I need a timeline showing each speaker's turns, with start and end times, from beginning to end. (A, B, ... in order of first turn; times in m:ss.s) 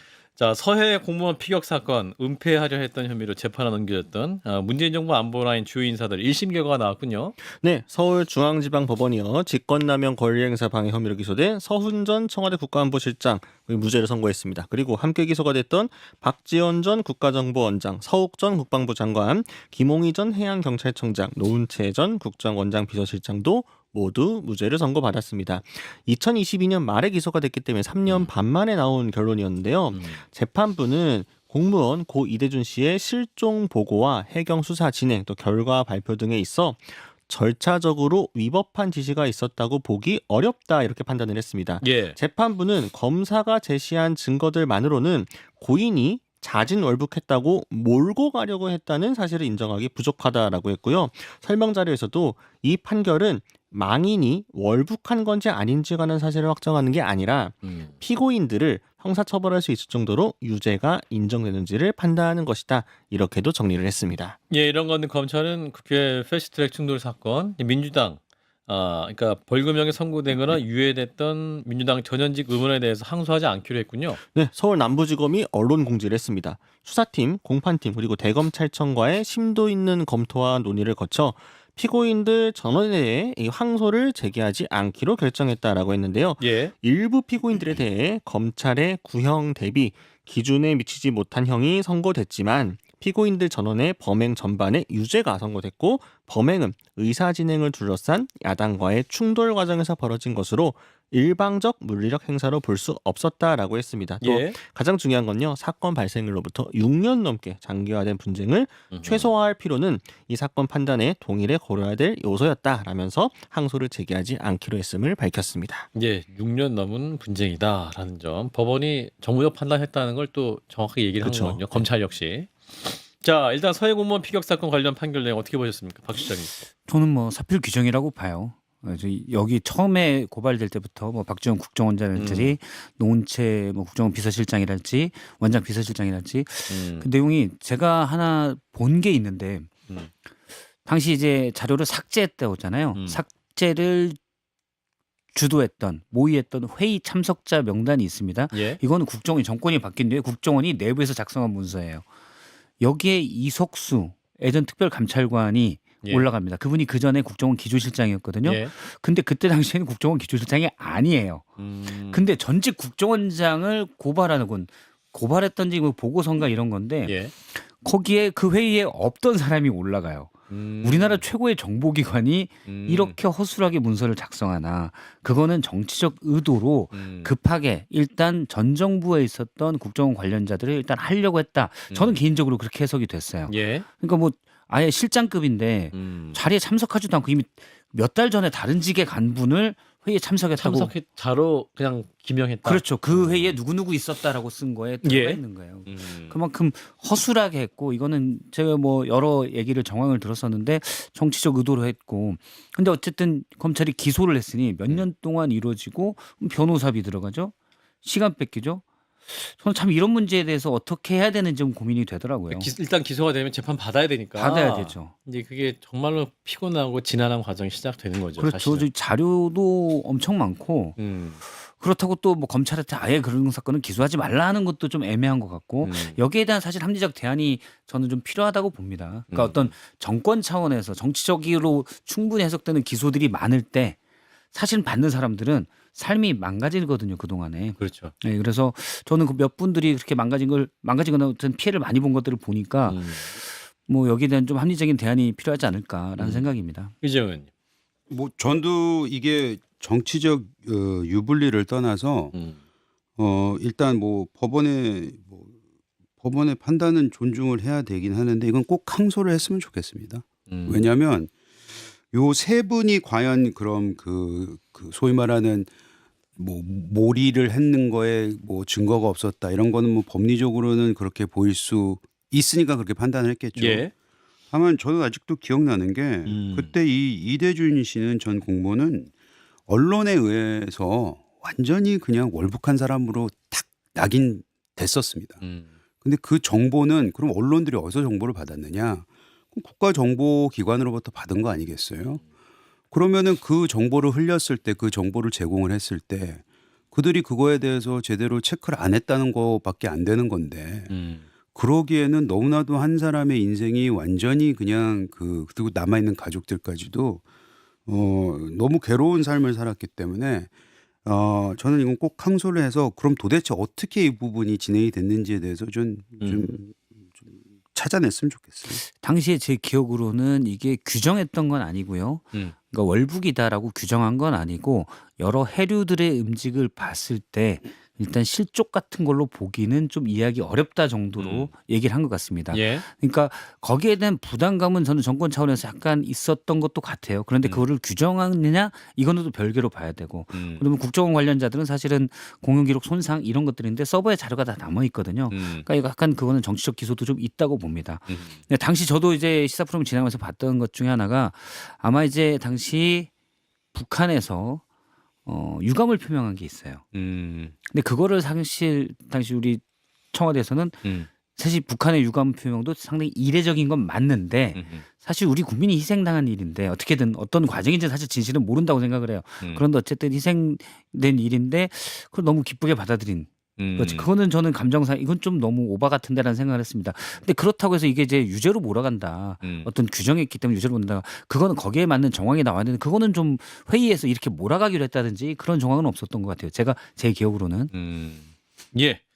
0:00.4-0:07.4 A
0:07.6-1:04.4 B
0:29.9-0:30.2 A
0:41.8-0:42.2 A
0:57.6-0:57.9 A
1:04.5-1:14.2 A
1:14.3-1:55.9 B
1:26.4-1:26.7 A
1:44.2-1:44.6 A
1:48.9-1:49.3 A
1:55.9-2:06.5 A
2:01.2-2:01.8 B
2:06.8-2:19.7 C
2:12.1-2:12.6 A
2:16.7-2:17.1 A
2:20.8-2:24.2 C
2:22.9-2:23.2 A
2:25.3-2:32.0 C
2:28.5-2:28.8 A
2:32.8-2:41.5 C
2:36.0-2:36.3 A
2:38.4-2:38.7 A
2:41.6-2:42.2 A
2:42.1-3:10.9 C
2:47.0-2:47.3 A
2:50.5-2:51.2 A
2:52.6-2:53.2 A
2:56.9-2:57.3 A
3:01.9-3:02.2 A
3:03.5-3:03.8 A
3:05.9-3:06.4 A
3:10.6-3:13.5 A
3:12.6-3:32.7 C
3:15.0-3:16.3 A
3:32.5-3:38.9 A
3:34.4-3:35.1 C
3:38.4-3:54.0 C
3:41.0-3:41.4 A
3:45.8-3:46.2 A
3:49.3-3:49.7 A
3:54.5-4:06.9 C
3:57.8-3:58.1 A
4:02.9-4:03.3 A
4:06.2-4:06.5 A
4:07.0-4:07.5 A
4:08.1-4:12.3 D
4:13.2-4:15.5 D
4:16.2-4:21.3 D
4:20.5-4:20.9 A
4:22.1-4:25.7 D
4:26.4-4:33.9 D
4:33.6-4:33.9 A
4:34.5-4:39.1 D
4:36.2-4:36.7 A
4:39.7-4:45.4 D
4:45.4-4:45.7 A
4:46.0-4:52.2 D
4:52.9-5:00.9 D
5:00.9-5:01.2 A
5:01.5-5:07.2 D
5:07.8-5:10.5 D
5:11.0-5:18.8 D
5:16.2-5:16.6 A
5:18.8-5:53.1 C
5:31.2-5:31.5 A
5:32.5-5:32.8 A
5:40.3-5:40.6 A
5:45.3-5:45.7 A
5:48.1-5:48.4 A
5:53.7-5:54.6 C
5:55.2-5:56.8 C
5:56.9-5:57.5 A
5:57.7-6:27.7 C
6:04.5-6:04.8 A
6:13.6-6:14.1 A
6:19.4-6:19.7 A
6:27.7-6:29.0 A